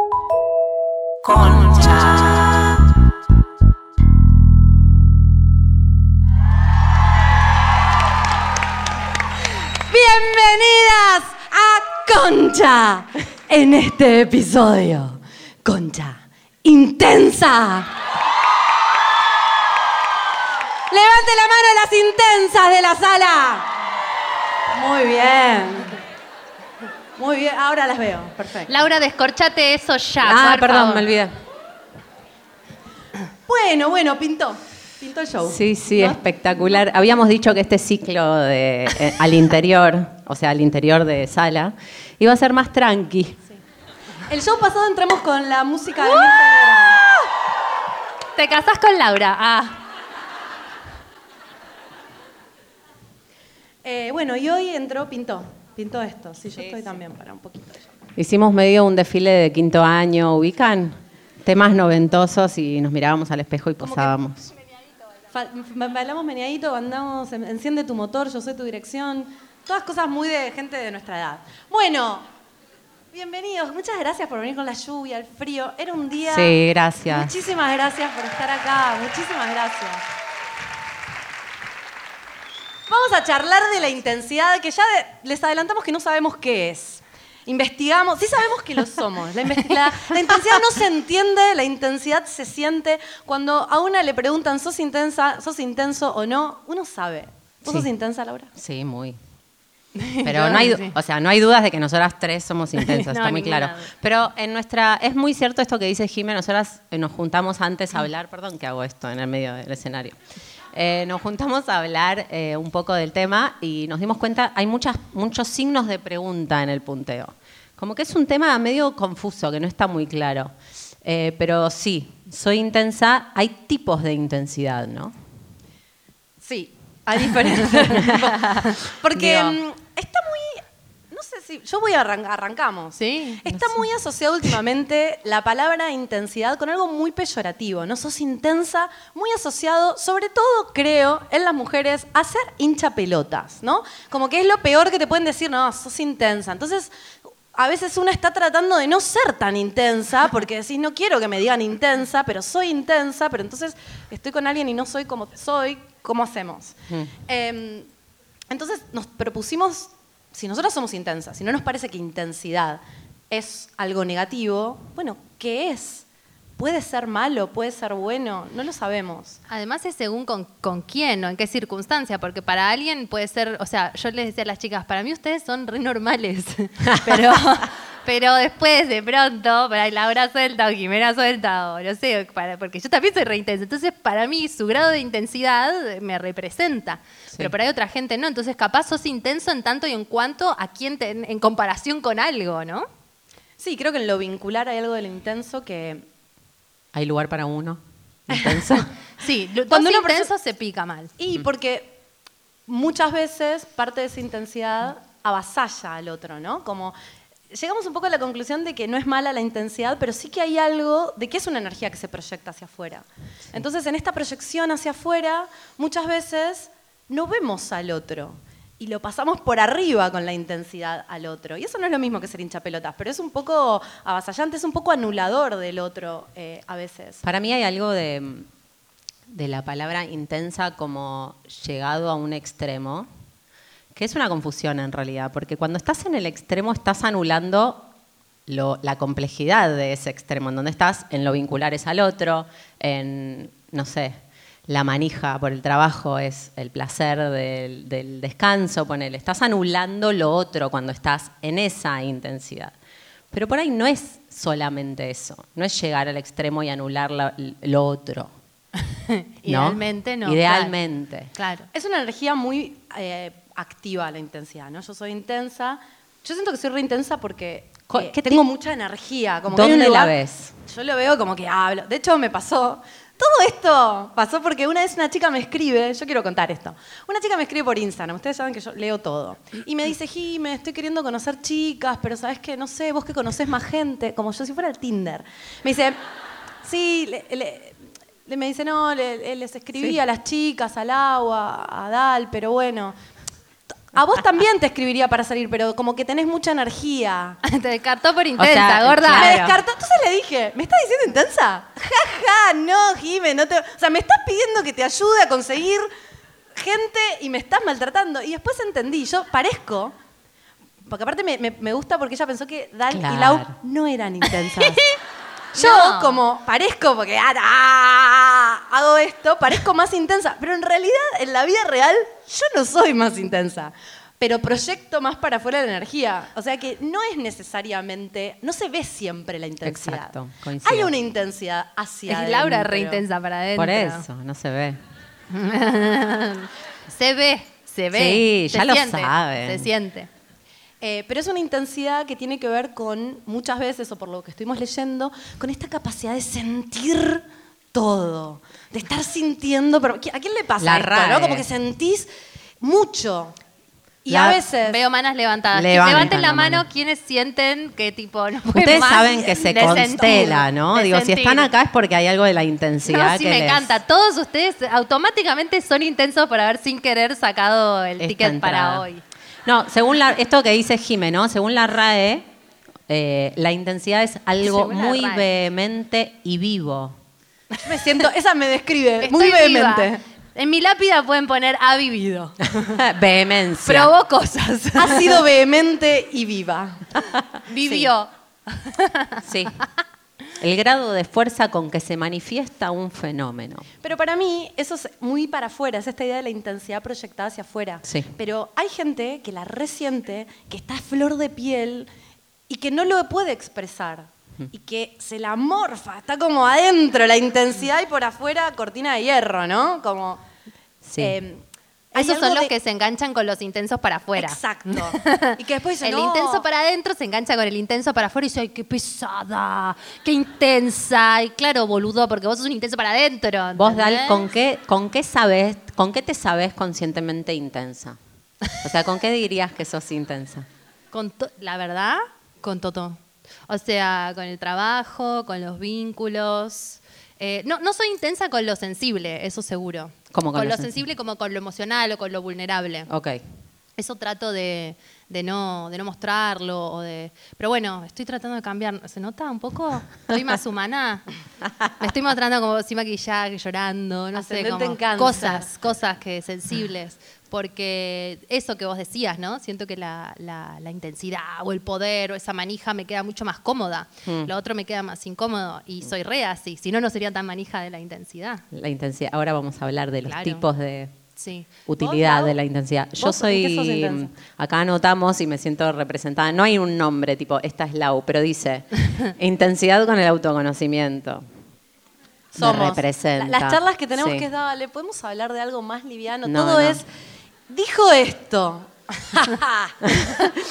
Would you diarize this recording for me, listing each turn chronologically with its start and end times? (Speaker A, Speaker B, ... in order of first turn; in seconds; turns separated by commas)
Speaker A: 1.3-2.4, Speaker A: 9.9-17.9, Speaker A: 20.9-23.7, Speaker A: 24.7-26.0, Speaker A: 27.2-28.7, Speaker B: 28.7-31.1, Speaker C: 30.2-31.4, Speaker A: 33.5-36.2, Speaker C: 35.5-43.4, Speaker A: 44.3-47.1, Speaker B: 48.4-49.8, Speaker A: 53.8-57.9, Speaker C: 58.2-64.5, Speaker A: 63.8-64.1, Speaker A: 65.3-72.3, Speaker A: 73.1-76.6, Speaker C: 76.3-77.3, Speaker A: 77.1-80.0, Speaker A: 82.9-98.5, Speaker C: 98.5-99.2, Speaker B: 100.0-100.9, Speaker C: 100.2-110.2, Speaker B: 102.8-103.9, Speaker C: 110.7-125.2, Speaker A: 126.4-146.9, Speaker C: 127.7-129.6, Speaker B: 133.0-133.4, Speaker C: 133.5-133.8, Speaker A: 147.5-157.9, Speaker A: 158.5-166.1, Speaker A: 166.6-169.4, Speaker B: 169.5-192.9, Speaker C: 177.1-177.4, Speaker A: 193.6-196.1, Speaker C: 196.9-198.9, Speaker B: 198.5-201.1, Speaker A: 199.7-200.3, Speaker A: 201.2-201.9, Speaker A: 202.7-206.9, Speaker A: 207.5-227.2, Speaker C: 227.2-228.5, Speaker C: 229.3-233.1, Speaker C: 233.9-237.9, Speaker C: 238.5-252.7, Speaker C: 253.3-258.3, Speaker B: 258.9-260.8, Speaker C: 259.5-261.3, Speaker B: 261.4-261.7, Speaker A: 261.7-270.1, Speaker C: 267.9-268.4, Speaker C: 269.5-270.5, Speaker A: 270.7-286.0, Speaker A: 286.6-292.9, Speaker A: 293.9-297.4, Speaker B: 297.4-299.5, Speaker C: 298.4-299.5, Speaker A: 299.1-305.9, Speaker A: 306.6-309.9, Speaker A: 310.9-314.8, Speaker C: 312.9-313.6, Speaker B: 314.7-315.0, Speaker A: 315.6-333.0, Speaker B: 315.6-316.2, Speaker C: 329.6-330.9, Speaker B: 332.1-334.1, Speaker C: 333.6-334.8, Speaker B: 335.3-340.1, Speaker C: 337.9-339.7, Speaker A: 340.8-352.1, Speaker C: 350.6-351.5, Speaker A: 352.6-353.3, Speaker A: 354.0-354.8, Speaker C: 354.1-354.4, Speaker B: 354.6-361.5, Speaker C: 355.5-356.6, Speaker C: 358.5-363.8, Speaker B: 362.9-369.0, Speaker C: 368.0-368.9, Speaker C: 369.4-372.3, Speaker C: 372.9-377.0, Speaker B: 374.4-375.3, Speaker A: 377.6-380.0, Speaker B: 379.0-382.7, Speaker C: 382.6-383.9, Speaker B: 383.7-385.2, Speaker A: 384.8-386.8, Speaker B: 387.5-389.2, Speaker C: 389.2-389.6, Speaker C: 390.4-393.7, Speaker A: 393.8-401.9, Speaker C: 397.9-398.1, Speaker A: 402.5-410.2, Speaker C: 410.8-411.2, Speaker A: 411.0-411.4, Speaker A: 411.9-412.5, Speaker B: 411.9-424.2, Speaker A: 414.2-416.4, Speaker C: 423.6-428.0, Speaker C: 428.6-430.5, Speaker B: 430.9-442.9, Speaker C: 440.1-440.8, Speaker C: 442.9-443.2, Speaker B: 443.8-451.1, Speaker B: 451.8-468.4, Speaker A: 454.1-455.4, Speaker C: 464.1-464.3, Speaker C: 468.5-470.9, Speaker B: 470.1-470.5, Speaker B: 471.2-471.5, Speaker C: 471.7-481.3, Speaker A: 471.8-472.4, Speaker A: 473.0-474.1, Speaker A: 482.3-486.9, Speaker C: 482.4-484.3, Speaker C: 486.2-486.8, Speaker A: 487.5-490.3